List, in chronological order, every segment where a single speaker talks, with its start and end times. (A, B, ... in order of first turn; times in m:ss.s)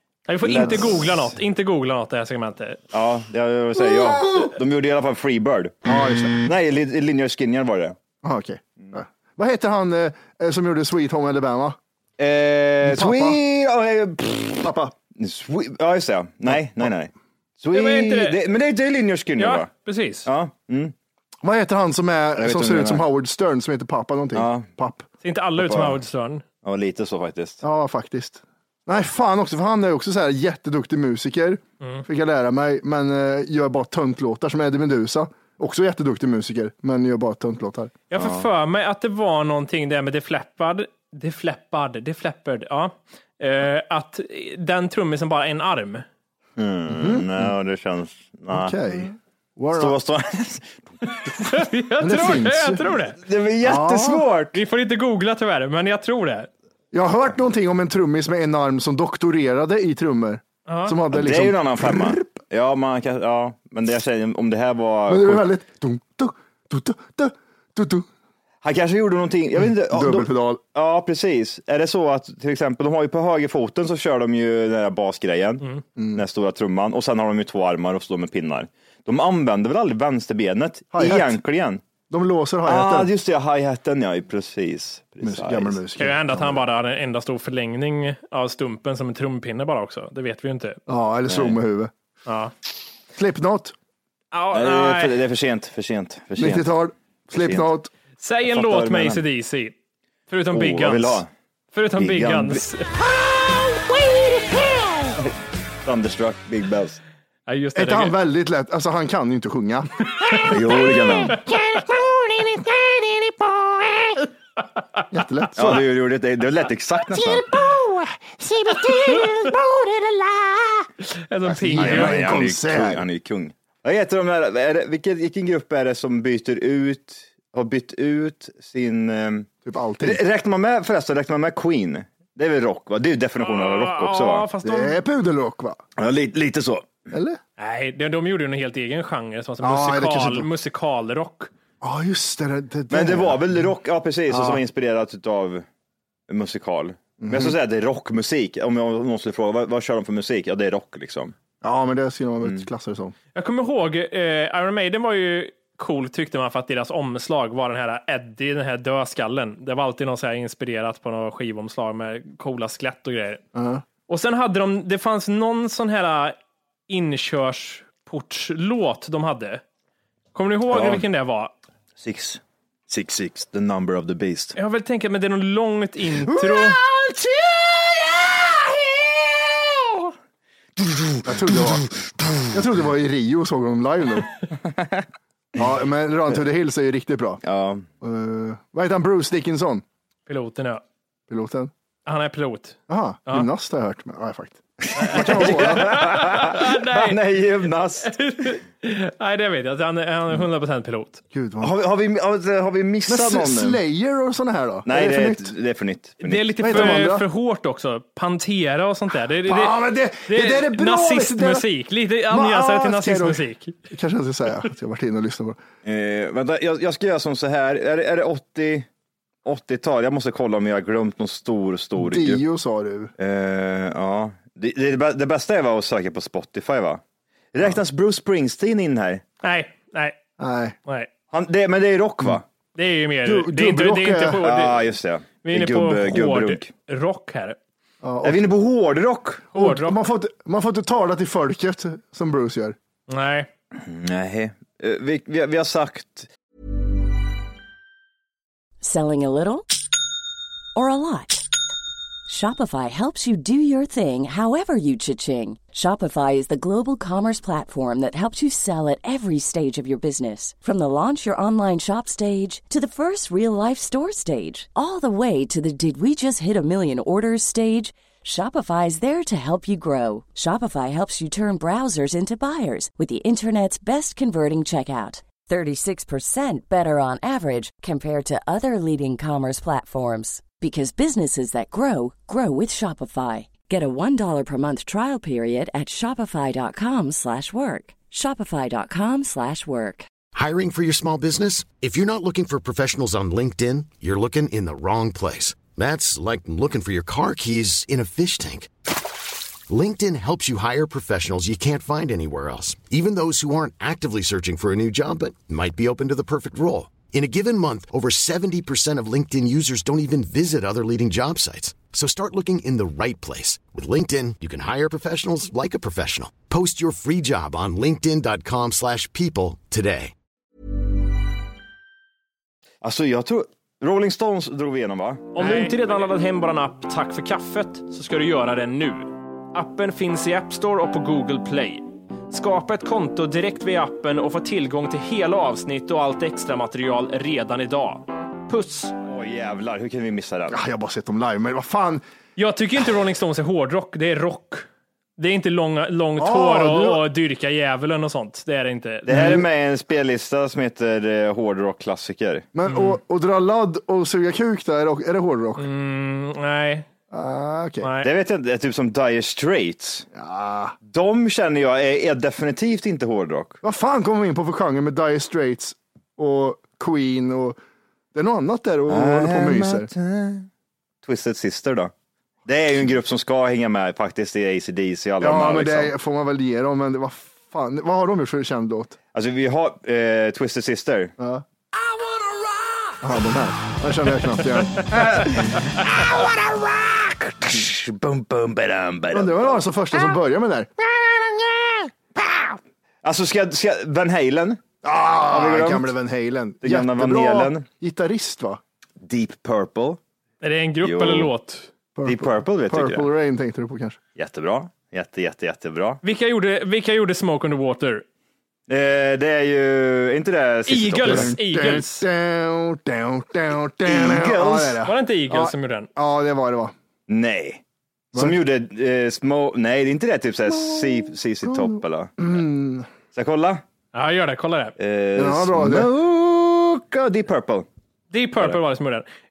0:00.3-0:02.8 A
0:00.4-0:01.3 B
0:02.9-0:05.8 B
0:05.8-0:06.4 C
0:06.4-0:08.0 B
0:08.2-0:11.8 C
0:12.2-0:19.7 B
0:12.8-0:13.4 C
0:14.6-0:14.9 C
0:16.5-0:16.9 C
0:17.7-0:18.4 A
0:19.4-0:20.3 A
0:20.2-0:20.9 B
0:21.4-0:25.0 C
0:22.4-0:23.0 B
0:24.3-0:24.7 B
0:25.2-0:26.4 A
0:25.6-0:26.0 B
0:26.6-0:27.6 B
0:27.6-0:37.9 C
0:38.1-0:46.0 A
0:38.2-0:38.4 B
0:46.6-0:48.8 B
0:46.9-0:47.5 C
0:48.5-0:49.9 C
0:49.7-0:50.8 B
0:51.4-0:53.2 A
0:52.0-0:52.8 C
0:53.2-0:54.6 B
0:53.6-0:54.3 C
0:54.5-0:56.5 A
0:56.9-1:02.2 C
1:00.7-1:01.0 A
1:01.1-1:05.4 B
1:05.1-1:08.0 C
1:08.6-1:21.8 B
1:09.9-1:10.6 C
1:16.0-1:16.2 C
1:20.9-1:21.4 C
1:22.1-1:23.1 C
1:22.6-1:25.8 B
1:25.2-1:26.6 C
1:26.0-1:30.8 A
1:30.9-1:31.9 C
1:31.3-1:31.6 B
1:32.2-1:32.5 A
1:33.2-1:33.7 C
1:34.3-1:35.2 A
1:34.5-1:36.7 B
1:36.4-1:37.9 C
1:37.4-1:37.7 B
1:38.2-1:39.7 A
1:38.5-1:39.2 B
1:40.3-1:43.3 A
1:40.5-1:41.3 B
1:42.0-1:42.6 B
1:45.8-1:47.0 B
1:47.5-1:48.2 A
1:47.7-1:50.5 C
1:50.4-1:51.4 B
1:51.5-1:52.6 C
1:55.1-1:55.9 C
1:55.6-1:57.5 B
1:57.3-2:00.8 C
1:58.9-1:59.5 A
2:01.0-2:02.3 A
2:01.4-2:03.0 C
2:01.8-2:09.5 B
2:09.6-2:10.2 C
2:10.0-2:14.5 B
2:13.4-2:15.0 A
2:14.6-2:15.8 C
2:16.0-2:16.9 B
2:17.1-2:17.4 C
2:17.6-2:21.5 A
2:19.6-2:20.5 C
2:21.8-2:23.6 C
2:22.9-2:25.6 B
2:24.3-2:24.6 C
2:26.3-2:31.3 B
2:27.2-2:27.5 C
2:31.6-2:33.1 C
2:33.3-2:43.4 A
2:43.5-2:43.8 C
2:44.1-2:46.4 A
2:46.9-2:49.6 A
2:50.3-2:51.5 A
2:50.7-2:51.0 B
2:52.0-2:54.5 B
2:54.5-2:56.8 A
2:56.3-3:00.1 B
3:00.8-3:02.4 B
3:01.2-3:01.9 C
3:02.5-3:04.3 C
3:04.7-3:05.0 B
3:05.6-3:07.4 C
3:07.4-3:07.8 B
3:08.0-3:09.8 C
3:10.3-3:10.8 A
3:11.3-3:11.7 C
3:12.0-3:13.5 A
3:12.9-3:15.9 C
3:14.8-3:18.1 B
3:15.0-3:17.2 A
3:18.0-3:21.2 A
3:21.3-3:21.7 C
3:21.6-3:23.8 B
3:23.1-3:25.5 C
3:24.8-3:27.1 B
3:26.2-3:33.7 A
3:26.6-3:27.2 C
3:29.4-3:31.6 C
3:32.3-3:35.6 C
3:35.8-3:38.9 B
3:39.4-3:42.4 B
3:42.0-3:43.1 C
3:43.2-3:47.0 B
3:47.5-3:49.2 B
3:49.4-3:50.2 A
3:50.4-3:50.8 C
3:51.3-3:52.4 B
3:52.8-3:54.8 A
3:53.2-3:54.4 C
3:54.4-3:56.7 B
3:55.4-3:57.6 A
3:58.0-3:58.4 C
3:58.2-3:59.5 B
3:59.5-4:00.0 A
3:59.5-4:02.8 C
4:03.1-4:03.5 A
4:03.8-4:06.3 B
4:08.8-4:09.7 D
4:10.7-4:11.5 D
4:12.3-4:50.1 D
4:50.3-4:58.7 E
4:59.7-5:20.1 E
5:22.8-5:25.7 B
5:25.3-5:39.0 A
5:39.0-5:40.6 B
5:40.5-5:42.0 C
5:42.4-5:44.6 A
5:45.2-5:49.1 A
5:46.2-5:47.0 C
5:49.0-5:52.5 B
5:49.1-5:49.4 C
5:52.5-5:55.7 C
5:52.7-5:53.0 A
5:55.6-5:56.9 A
5:57.1-5:57.9 C
5:57.8-5:58.1 A
5:58.0-6:00.0 B
6:00.1-6:00.8 C
6:00.9-6:03.6 B
6:03.6-6:07.6 C
6:08.1-6:09.9 C
6:08.9-6:10.5 B
6:11.0-6:11.9 B
6:12.4-6:15.9 B
6:15.2-6:19.0 C
6:19.1-6:21.1 B
6:21.2-6:21.4 C
6:23.0-6:25.4 C
6:24.8-6:29.6 B
6:29.1-6:30.7 C
6:33.0-6:34.6 B
6:34.8-6:38.6 C
6:35.3-6:35.9 B
6:36.6-6:37.6 B
6:39.0-6:40.0 B
6:40.4-6:41.7 A
6:40.8-6:41.3 B
6:42.0-6:44.0 C
6:42.0-6:43.1 B
6:44.2-6:46.0 B
6:46.0-6:48.0 A
6:48.7-6:51.3 B
6:50.7-6:52.0 A
6:51.0-6:56.7 C
6:53.8-6:54.8 B
6:54.8-6:55.9 A
6:57.1-6:57.6 B
6:58.1-7:02.2 B
7:01.4-7:02.9 C
7:03.1-7:03.6 B
7:03.9-7:04.8 A
7:04.8-7:07.7 B
7:05.2-7:05.9 C
7:08.1-7:09.0 A